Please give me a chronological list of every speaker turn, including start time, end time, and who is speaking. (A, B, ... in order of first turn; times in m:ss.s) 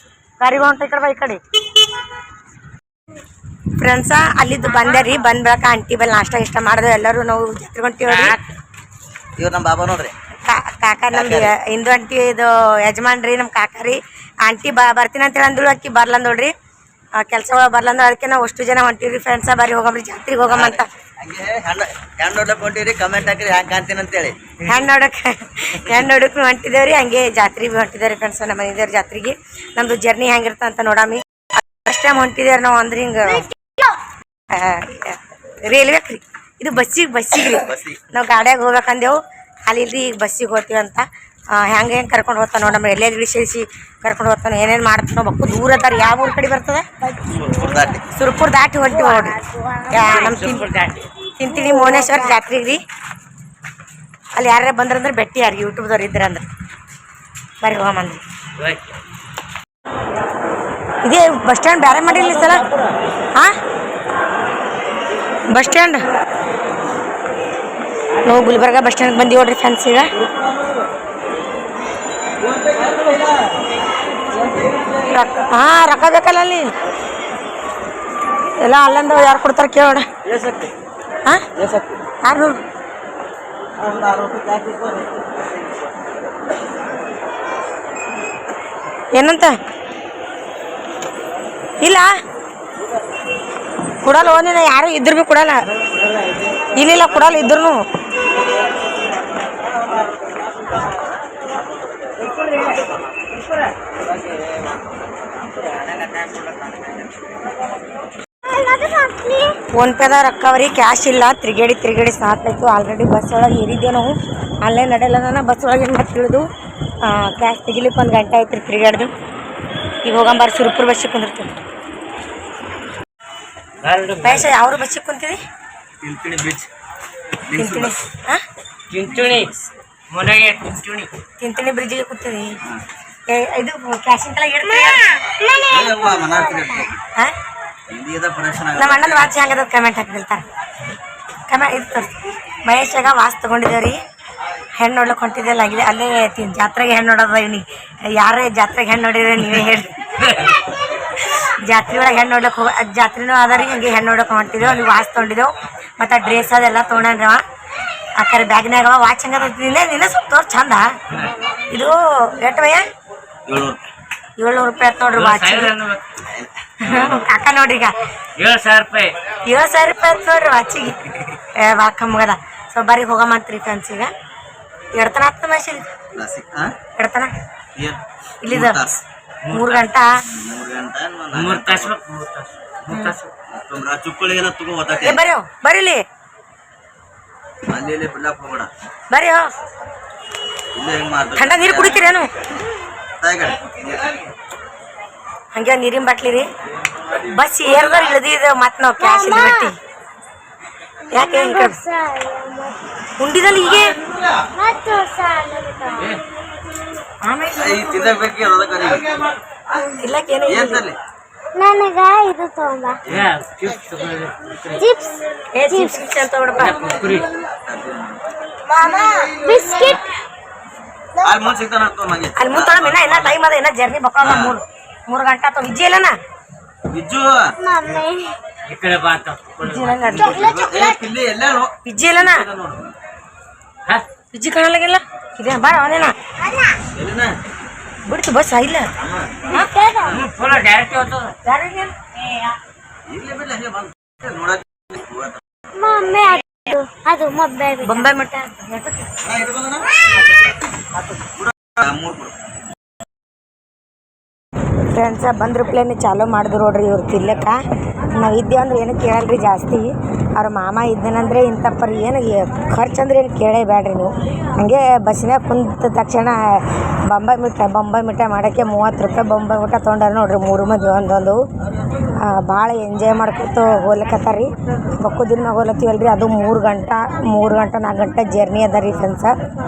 0:00.4-0:01.4 A
0:03.8-0:08.4 A
0:08.1-0:08.4 B
0:09.4-0:10.1 C
0:10.4-0:16.5 A
0:11.1-0:11.5 C
0:17.2-0:20.9 A
0:20.5-0:24.6 C
0:24.6-0:33.5 A
0:33.6-0:34.0 D
0:34.5-0:46.8 A
0:37.6-0:38.0 C
0:47.1-0:47.8 D
0:47.3-0:48.0 C
0:48.1-0:50.7 A
0:49.1-0:50.1 D
0:50.1-0:51.1 B
0:51.4-0:52.8 A
0:51.6-0:52.4 D
0:54.3-0:56.4 A
0:57.6-0:58.2 A
0:58.6-0:58.9 B
1:01.0-1:02.6 A
1:05.5-1:06.1 A
1:08.2-1:10.1 A
1:12.7-1:13.2 C
1:15.0-1:16.7 A
1:18.6-1:20.0 A
1:20.3-1:20.7 C
1:21.6-1:21.9 C
1:22.2-1:22.6 A
1:23.8-1:25.3 C
1:29.1-1:29.5 A
1:31.8-1:32.1 A
1:34.0-1:35.6 A
1:36.7-1:37.8 A
1:48.4-1:49.6 D
1:49.7-1:56.5 A
1:57.0-1:59.1 A
2:00.0-2:01.5 A
2:03.8-2:04.5 B
2:04.2-2:05.4 A
2:06.0-2:06.7 C
2:07.5-2:07.9 C
2:07.5-2:08.4 A
2:08.9-2:09.5 B
2:10.1-2:11.1 B
2:11.4-2:12.6 A
2:13.3-2:15.2 A
2:14.8-2:16.9 D
2:15.7-2:17.0 C
2:17.9-2:19.3 C
2:18.7-2:20.4 A
2:21.5-2:24.0 A
2:24.8-2:30.6 A
2:31.3-2:37.4 A
2:38.2-2:40.8 A
2:41.7-2:42.8 A
2:43.4-2:43.8 C
2:44.4-2:45.8 A
2:45.2-2:46.1 B
2:46.2-2:46.5 C
2:46.8-2:48.0 A
2:46.8-2:47.2 B
2:48.4-2:49.2 B
2:49.4-2:54.1 A
2:54.9-2:55.9 A
2:56.1-2:56.7 C
2:57.0-2:57.3 A
2:57.8-2:59.0 C
2:58.4-2:58.8 A
2:59.4-2:59.8 B
2:59.5-3:00.1 A
3:00.3-3:01.9 C
3:01.3-3:03.3 B
3:02.9-3:03.1 A
3:03.5-3:05.2 C
3:05.0-3:06.0 A
3:07.7-3:08.7 C
3:09.1-3:09.4 A
3:10.7-3:12.0 C
3:11.4-3:12.3 A
3:13.2-3:14.0 C
3:15.5-3:16.4 A
3:17.2-3:19.7 A
3:19.0-3:19.7 D
3:21.1-3:21.8 A
3:21.1-3:22.9 D
3:23.2-3:24.0 A
3:24.5-3:26.2 D
3:27.2-3:27.8 A
3:27.6-3:29.2 C
3:29.9-3:30.8 A
3:30.5-3:31.0 C
3:31.5-3:33.0 D
3:33.1-3:33.3 C
3:33.1-3:34.8 B
3:34.7-3:36.0 D
3:35.5-3:37.0 A
3:36.6-3:37.3 B
3:37.5-3:38.2 C
3:38.7-3:40.1 D
3:41.2-3:43.3 C
3:42.4-3:46.2 A
3:44.2-3:44.6 C
3:46.9-3:47.5 C
3:47.6-3:48.4 D
3:48.7-3:50.2 B
3:49.6-3:50.4 A
3:50.1-3:52.9 C
3:50.2-3:51.0 D
3:51.8-3:52.4 A
3:54.3-3:56.2 A
3:56.4-3:56.8 D
3:56.9-3:57.4 C
3:58.0-3:58.9 A
3:59.0-3:59.4 C
3:59.5-4:00.2 D
4:00.1-4:01.3 B
4:01.4-4:01.9 A
4:03.0-4:05.4 C
4:05.7-4:08.1 D
4:07.8-4:09.1 A
4:09.2-4:09.9 C
4:11.4-4:12.3 C
4:14.9-4:17.6 A
4:18.1-4:31.4 A
4:32.2-4:39.4 A